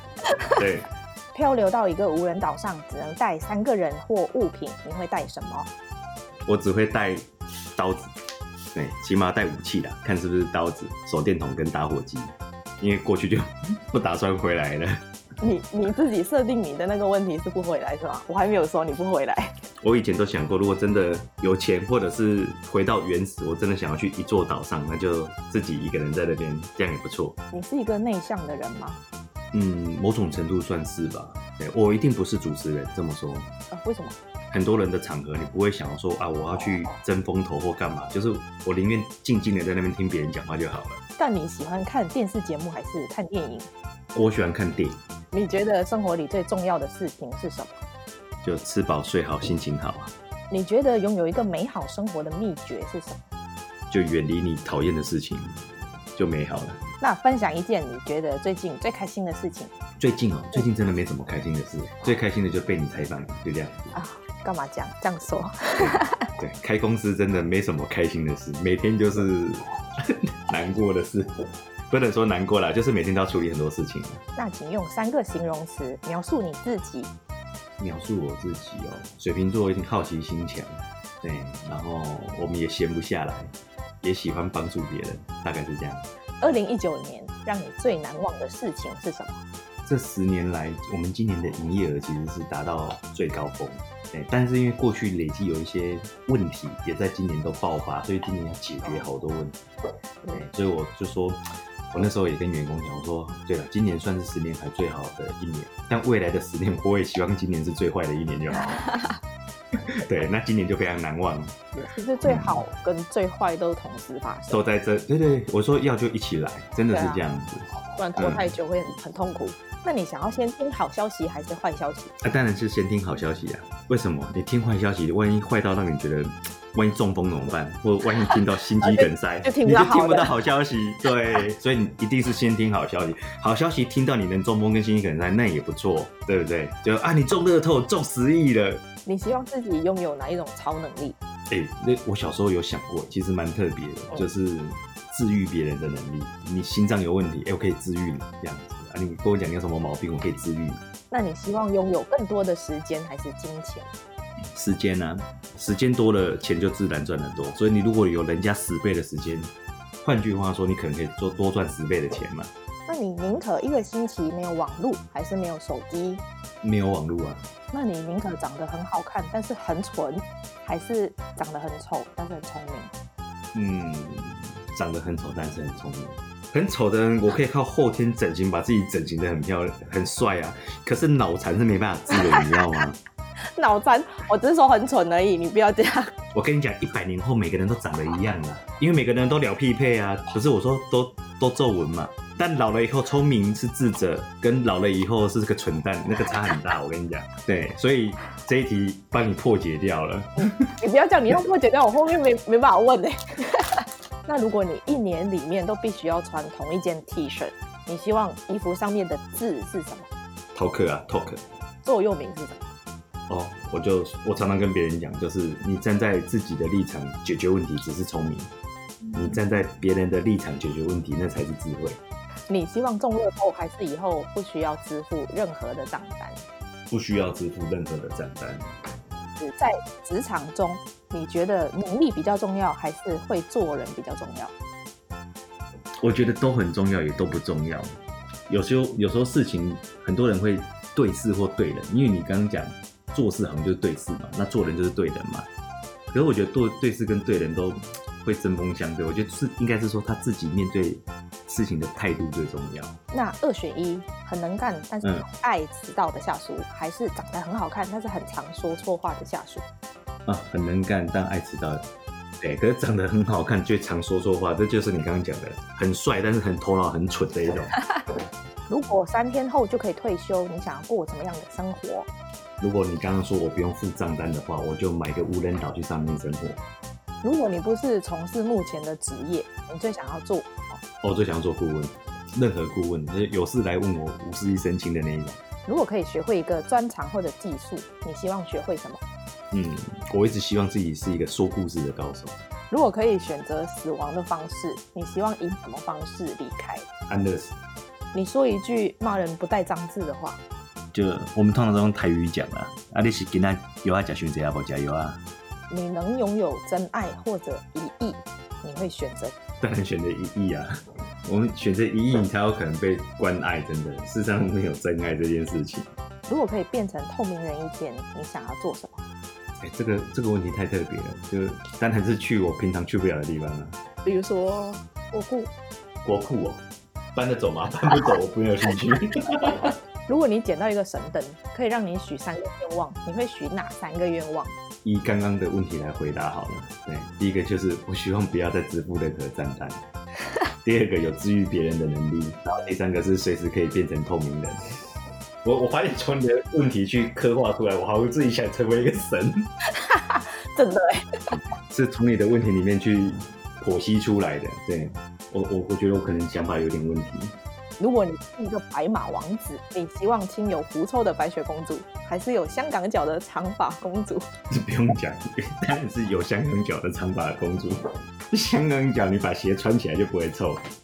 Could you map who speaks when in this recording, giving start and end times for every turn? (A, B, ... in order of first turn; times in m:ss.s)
0:00.3-0:00.6 A
0:00.5-0:00.9 B
0:01.3-0:05.7 A
0:06.5-0:08.1 B
0:08.7-0:15.0 B
0:15.4-0:19.5 A
0:19.8-0:27.4 B
0:27.5-0:29.0 A
0:29.5-0:33.5 B
0:33.7-0:34.2 A
0:34.5-0:41.0 B
0:36.6-0:37.0 A
0:41.2-0:43.7 A
0:44.1-0:45.0 B
0:45.3-0:47.8 A
0:48.4-0:50.1 B
0:50.5-0:53.2 A
0:53.9-0:55.6 B
0:56.1-0:56.8 B
0:57.0-0:59.7 A
1:00.0-1:03.8 B
1:03.9-1:06.2 A
1:05.8-1:11.3 B
1:11.9-1:14.2 B
1:14.4-1:17.1 A
1:17.8-1:20.7 B
1:21.2-1:26.0 B
1:26.4-1:29.4 A
1:29.8-1:39.6 B
1:40.3-1:48.8 B
1:48.7-1:49.1 A
1:50.0-1:51.5 B
1:51.8-1:54.6 A
1:52.2-1:52.6 B
1:54.5-1:58.5 B
1:56.9-1:57.2 A
1:58.0-2:02.1 A
2:02.2-2:18.8 B
2:08.8-2:10.3 A
2:19.0-2:21.2 A
2:21.5-2:30.8 B
2:31.1-2:33.9 A
2:34.5-2:39.5 B
2:40.0-2:42.5 B
2:42.9-2:46.2 A
2:46.6-2:47.4 B
2:47.7-2:52.9 A
2:53.5-3:03.0 B
3:02.1-3:02.6 A
3:03.6-3:06.1 A
3:06.3-3:20.7 B
3:20.4-3:30.1 A
3:30.5-3:31.4 B
3:31.8-3:32.7 A
3:33.3-3:38.5 B
3:39.1-3:42.0 B
3:42.5-3:46.4 A
3:46.9-3:48.6 B
3:49.4-3:54.5 A
3:56.0-3:57.9 B
3:58.5-4:05.5 B
4:06.1-4:13.0 B
4:13.1-4:19.6 A
4:20.2-4:21.8 B
4:22.4-4:27.8 B
4:28.7-4:32.1 A
4:32.6-4:36.6 B
4:37.2-4:40.8 A
4:41.0-4:45.4 B
4:45.6-4:49.0 A
4:49.5-4:52.4 B
4:52.7-4:56.8 A
4:57.1-4:57.6 B
4:58.1-5:00.4 A
5:00.9-5:05.2 B
5:05.7-5:09.3 A
5:09.6-5:10.7 B
5:11.2-5:15.9 B
5:16.3-5:19.0 A
5:19.6-5:23.8 B
5:24.0-5:25.5 A
5:26.0-5:26.6 B
5:27.2-5:29.7 B
5:30.1-5:34.5 A
5:34.8-5:39.8 B
5:40.6-5:44.6 B
5:45.4-5:49.4 B
5:49.7-5:51.2 A
5:51.7-5:57.3 B
5:57.8-6:04.2 A
6:04.5-6:07.8 B
6:08.3-6:10.6 B